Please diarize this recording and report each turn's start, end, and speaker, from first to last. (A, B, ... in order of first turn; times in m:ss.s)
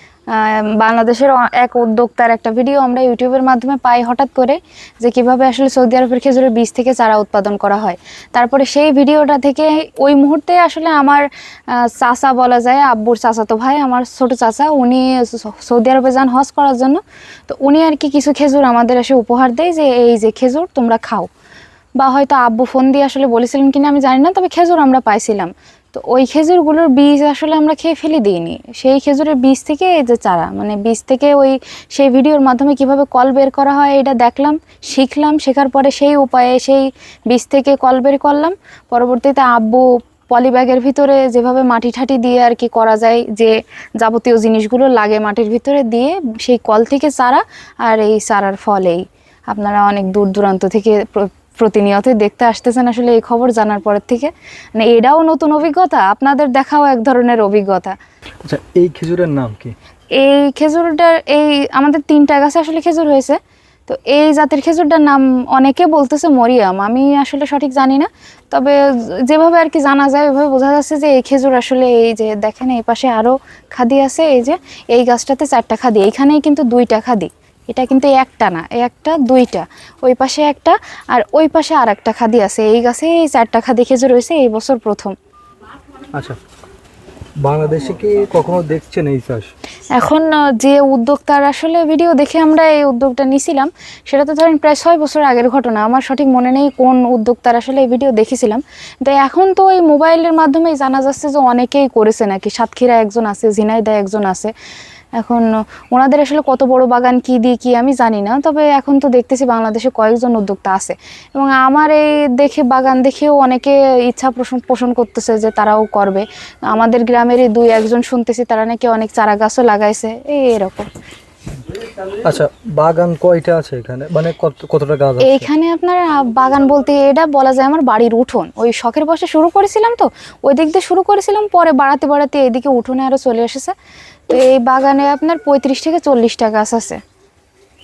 0:00.3-0:21.3 A
0:22.0-0:58.0 A
0:58.4-0:59.7 B
1:00.1-1:25.1 A
1:27.4-1:29.5 B
1:30.0-1:44.5 A
1:45.2-2:00.9 A
2:02.1-2:05.5 B
2:05.2-2:13.7 A
2:14.3-2:17.0 A